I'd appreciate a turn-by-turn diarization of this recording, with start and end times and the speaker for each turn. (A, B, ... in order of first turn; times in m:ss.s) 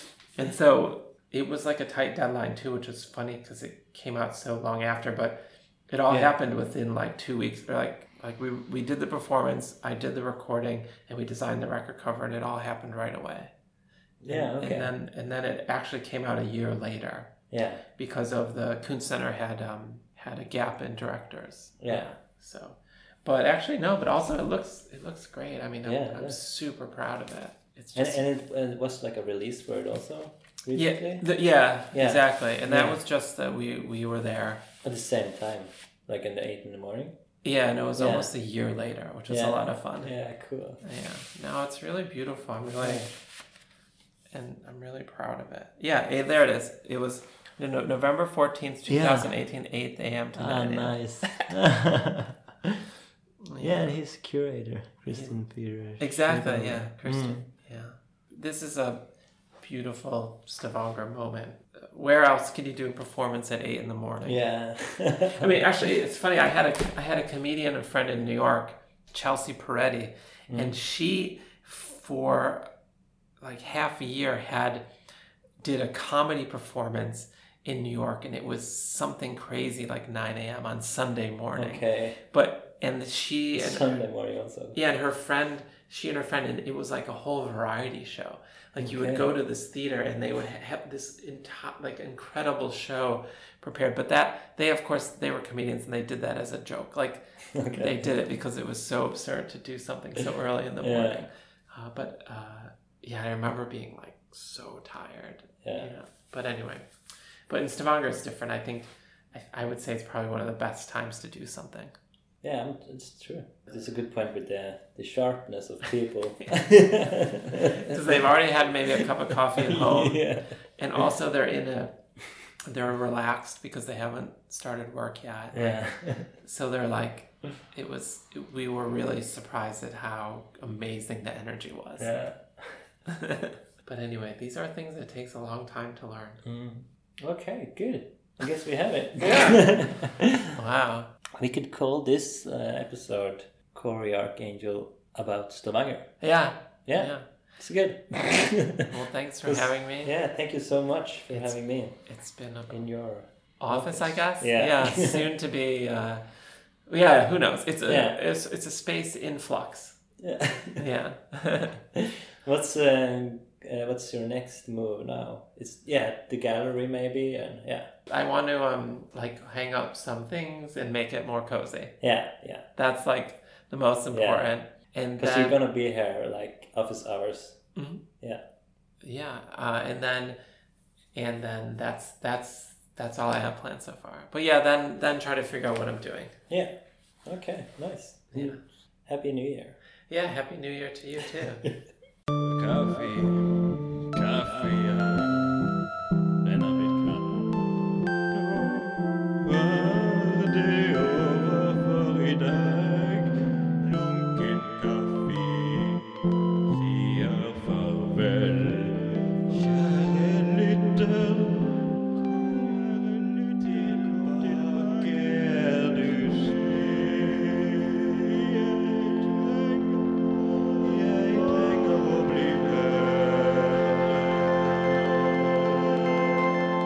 0:00.4-0:13.5 A
0:14.2-0:14.9 B
0:14.3-0:17.3 A
0:17.5-0:17.8 B
0:18.0-0:28.3 A
0:21.8-0:22.1 B
0:25.8-0:26.4 B
0:28.0-0:31.2 B
0:30.8-0:34.7 A
0:31.9-0:33.0 B
0:34.8-0:37.2 B
0:37.4-0:40.1 A
0:38.0-0:38.3 B
0:39.3-0:40.8 B
0:40.8-0:43.1 A
0:42.8-0:43.1 B
0:44.3-0:51.4 A
0:48.9-0:49.3 B
0:50.4-0:52.8 B
0:53.4-0:54.0 A
0:53.6-0:57.5 B
0:56.0-0:59.0 A
0:59.6-1:04.4 A
1:04.2-1:05.5 B
1:05.3-1:12.7 A
1:10.5-1:10.8 B
1:13.4-1:14.9 A
1:15.6-1:24.0 A
1:21.6-1:22.2 B
1:23.6-1:24.8 B
1:24.7-1:46.8 A
1:28.8-1:29.3 B
1:37.5-1:38.1 B
1:40.8-1:41.2 B
1:45.6-1:45.9 B
1:47.5-1:52.0 A
1:52.4-1:58.3 B
1:57.7-2:00.2 A
1:59.6-2:00.5 B
2:00.8-2:02.0 A
2:02.6-2:12.2 A
2:05.5-2:06.4 B
2:12.0-2:12.9 B
2:13.1-2:16.4 A
2:16.4-2:20.6 B
2:19.2-2:19.8 A
2:20.6-2:21.1 A
2:21.4-2:26.2 B
2:26.2-2:27.2 A
2:26.9-2:28.9 B
2:28.9-2:30.1 A
2:29.4-2:32.0 B
2:31.3-2:32.8 A
2:32.7-2:35.3 B
2:33.6-2:36.2 A
2:36.9-2:40.0 A
2:37.9-2:38.2 B
2:40.2-2:40.8 B
2:40.8-2:41.8 A
2:42.0-2:47.9 B
2:48.1-2:52.0 A
2:52.0-2:52.7 B
2:52.8-2:55.6 A
2:54.1-2:54.5 B
2:55.2-2:57.6 B
2:57.8-2:58.0 A
2:59.0-3:00.4 A
3:01.2-3:06.4 A
3:06.5-3:09.8 B
3:08.3-3:08.6 A
3:10.1-3:11.6 A
3:12.4-3:15.7 C
3:16.4-3:26.1 C
3:26.6-3:46.3 C